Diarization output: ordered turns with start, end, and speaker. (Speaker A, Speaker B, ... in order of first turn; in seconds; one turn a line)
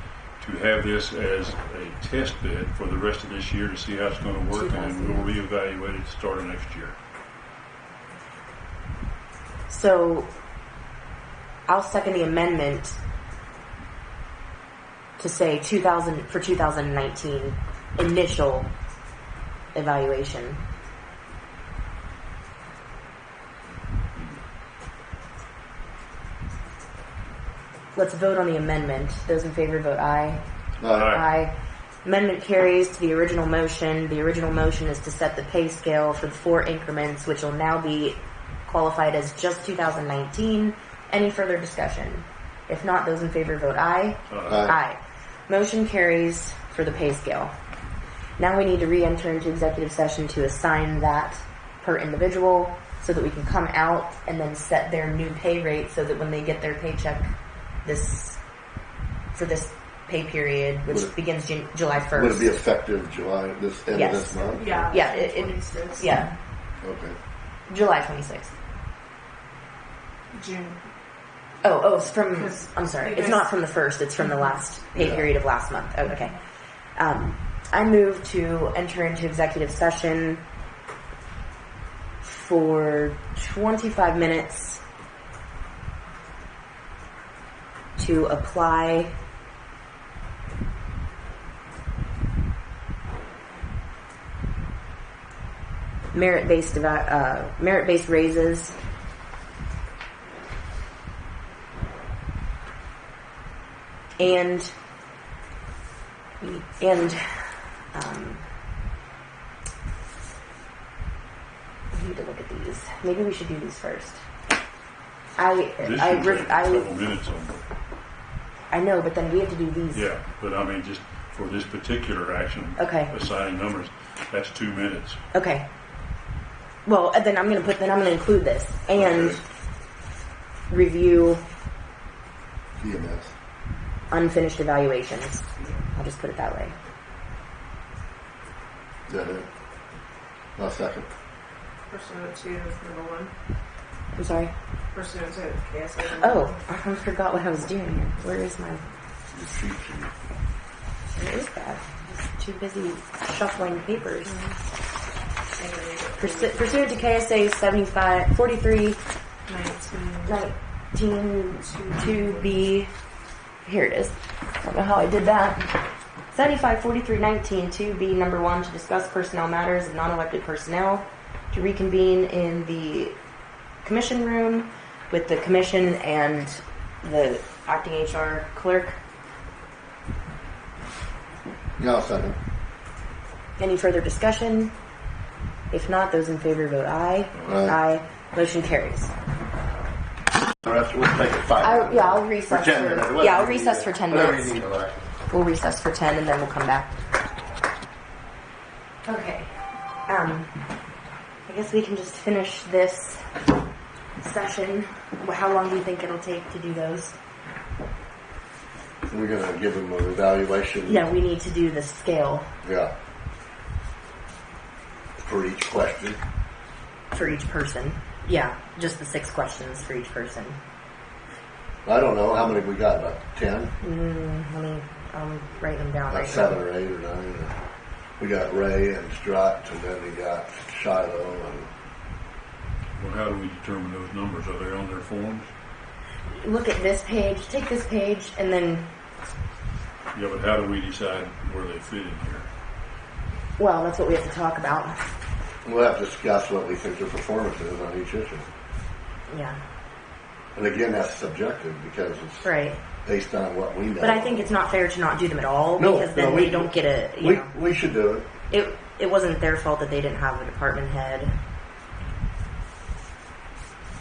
Speaker A: 0.4-7.0
Speaker B: 4.5-5.3
Speaker B: 9.7-10.3
Speaker B: 11.7-13.0
Speaker B: 15.2-18.7
Speaker B: 19.7-20.6
Speaker B: 27.9-47.5
Speaker C: 30.8-31.2
Speaker A: 30.9-31.2
Speaker A: 44.3-44.7
Speaker C: 44.5-44.8
Speaker B: 48.4-58.4
Speaker B: 59.3-62.5
Speaker C: 62.1-64.8
Speaker B: 63.9-66.3
Speaker D: 64.5-66.2
Speaker C: 66.8-67.1
Speaker B: 67.7-68.5
Speaker D: 70.3-70.8
Speaker B: 71.6-76.4
Speaker D: 72.3-73.5
Speaker C: 75.0-75.3
Speaker B: 77.0-80.4
Speaker B: 82.2-84.8
Speaker B: 88.0-89.2
Speaker B: 96.1-98.8
Speaker B: 104.2-104.7
Speaker B: 106.4-107.2
Speaker B: 107.9-108.4
Speaker B: 111.9-114.2
Speaker B: 115.4-116.9
Speaker A: 115.8-117.6
Speaker B: 118.7-120.1
Speaker A: 119.9-125.2
Speaker B: 122.8-123.1
Speaker B: 125.3-125.7
Speaker B: 126.8-129.4
Speaker C: 128.9-129.4
Speaker B: 130.7-131.4
Speaker C: 132.8-133.3
Speaker B: 134.1-136.7
Speaker C: 139.1-139.5
Speaker C: 140.6-141.1
Speaker D: 141.9-143.3
Speaker B: 144.1-144.5
Speaker D: 144.9-146.6
Speaker B: 146.2-148.8
Speaker C: 149.3-150.1
Speaker B: 151.1-154.4
Speaker D: 154.3-154.6
Speaker D: 155.6-156.8
Speaker B: 156.2-159.0
Speaker D: 159.5-160.4
Speaker B: 160.2-162.9
Speaker D: 161.6-162.5
Speaker B: 163.6-165.7
Speaker B: 166.3-173.2
Speaker B: 173.8-179.0
Speaker C: 181.8-182.3
Speaker B: 183.6-184.7
Speaker B: 185.7-189.1
Speaker C: 187.4-187.8
Speaker C: 190.6-195.0
Speaker B: 191.6-194.5
Speaker B: 195.3-196.9
Speaker B: 199.0-199.5
Speaker B: 200.1-200.5
Speaker B: 201.4-203.3
Speaker B: 204.2-207.2
Speaker C: 209.1-211.0
Speaker B: 210.9-212.5
Speaker C: 212.6-212.9
Speaker C: 215.2-216.2
Speaker B: 217.1-220.6
Speaker C: 221.8-223.7
Speaker B: 223.8-226.6
Speaker C: 226.1-227.5
Speaker C: 228.2-231.7
Speaker A: 233.0-235.5
Speaker B: 236.3-238.9
Speaker A: 240.1-242.5
Speaker B: 243.6-245.1
Speaker C: 245.6-248.4
Speaker B: 249.3-249.6
Speaker C: 250.5-252.4
Speaker B: 252.4-252.8
Speaker C: 253.0-254.5
Speaker B: 254.0-257.5
Speaker C: 255.8-258.2
Speaker B: 258.5-261.3